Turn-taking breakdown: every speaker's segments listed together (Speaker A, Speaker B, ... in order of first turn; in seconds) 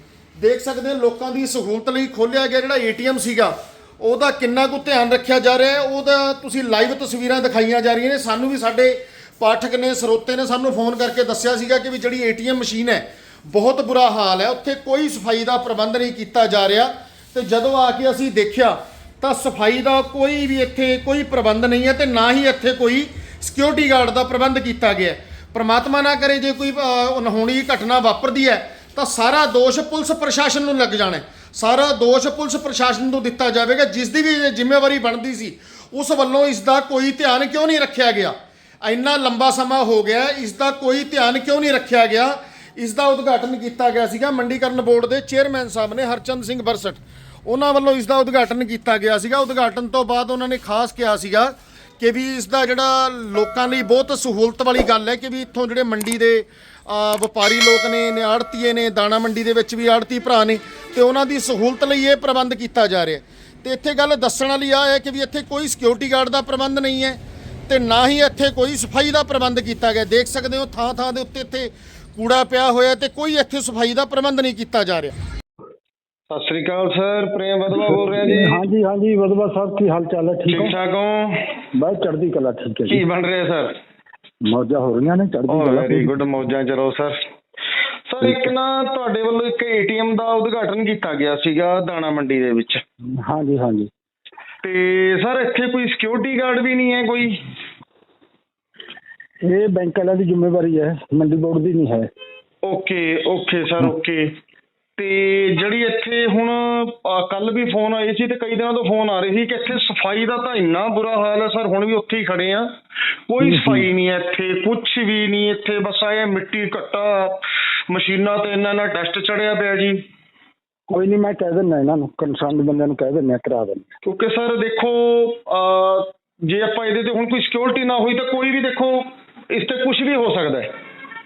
Speaker A: 0.4-75.1
Speaker B: 76.3-78.6, 80.5-81.6, 82.9-83.7, 85.5-87.2, 88.1-92.8, 94.6-97.4, 102.6-104.3, 105.0-112.7, 113.3-120.0, 124.0-130.7
Speaker C: 77.7-80.8, 81.7-83.0, 84.4-86.1, 88.2-88.5, 93.2-93.9, 99.4-102.1, 113.4-113.9, 120.9-123.9